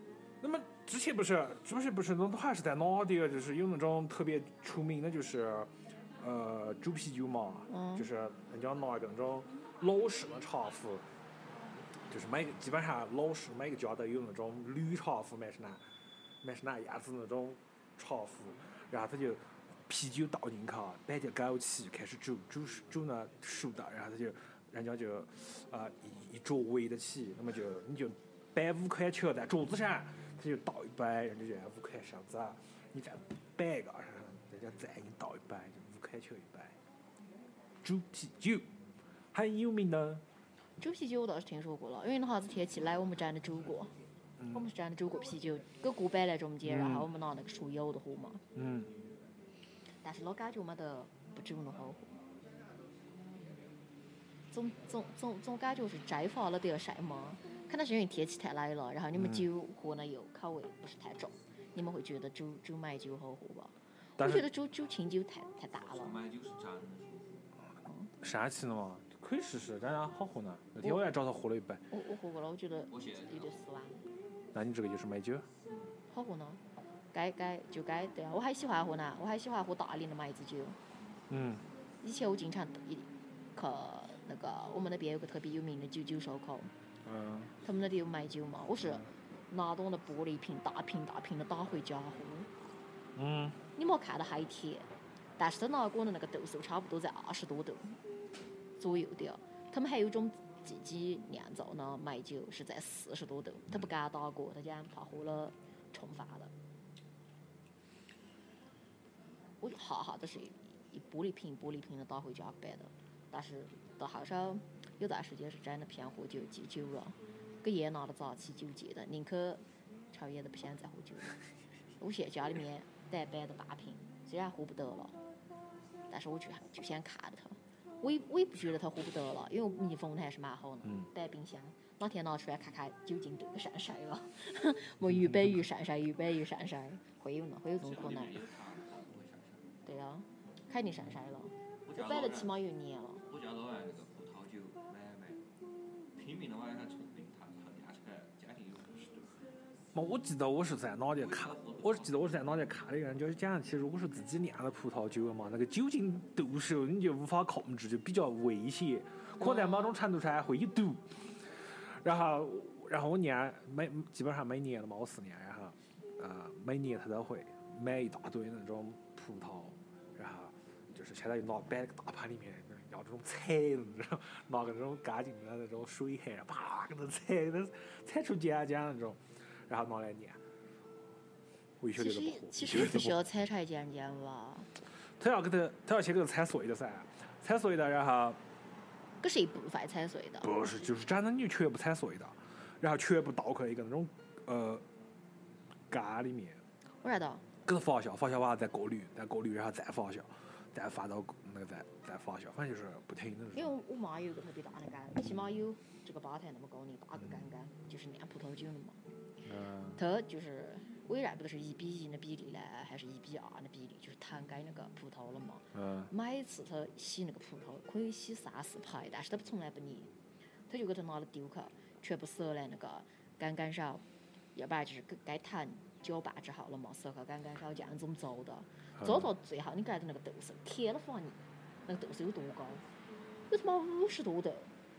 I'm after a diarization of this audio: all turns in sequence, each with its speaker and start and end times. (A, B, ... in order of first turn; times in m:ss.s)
0:00.4-0:11.0 A
0:07.7-0:08.1 B
0:12.1-0:15.8 A
0:16.4-0:36.8 A
0:37.8-0:38.7 A
0:39.3-0:40.2 A
0:40.8-0:43.9 B
0:44.4-0:44.6 A
0:44.5-0:48.4 B
0:46.6-0:47.1 A
0:48.6-0:48.9 A
0:50.0-0:52.2 B
0:53.2-0:53.5 C
0:54.5-1:06.2 B
0:59.2-0:59.5 A
1:04.2-1:04.5 A
1:05.8-1:07.5 C
1:07.9-1:08.1 B
1:08.2-1:11.8 A
1:11.9-1:14.1 B
1:12.9-1:13.6 C
1:14.5-1:15.5 A
1:16.1-1:16.6 B
1:17.1-1:20.8 B
1:21.3-1:21.7 A
1:22.0-1:26.7 B
1:27.0-1:27.5 A
1:27.6-1:32.5 B
1:33.2-1:33.6 A
1:33.8-1:38.0 B
1:38.8-1:46.5 B
1:49.6-2:01.4 B
2:02.0-2:05.2 B
2:06.1-2:18.4 B
2:17.8-2:19.7 C
2:19.9-2:23.2 B
2:21.8-2:22.6 C
2:23.3-2:25.4 C
2:26.2-2:29.5 C
2:29.9-2:41.0 A
2:31.2-2:32.4 C
2:39.4-2:39.9 B
2:42.0-3:00.4 A
3:01.8-3:03.2 A
3:02.0-3:04.7 B
3:05.2-3:08.4 A
3:09.2-3:10.6 B
3:10.4-3:14.8 A
3:15.9-3:16.6 A
3:17.0-3:17.4 B
3:17.6-3:23.7 A
3:23.6-3:29.0 B
3:29.4-3:30.0 A
3:30.0-3:40.1 B
3:35.7-3:36.1 A
3:40.7-3:44.0 B
3:44.6-3:52.8 B
3:49.0-3:49.3 A
3:53.5-3:54.7 B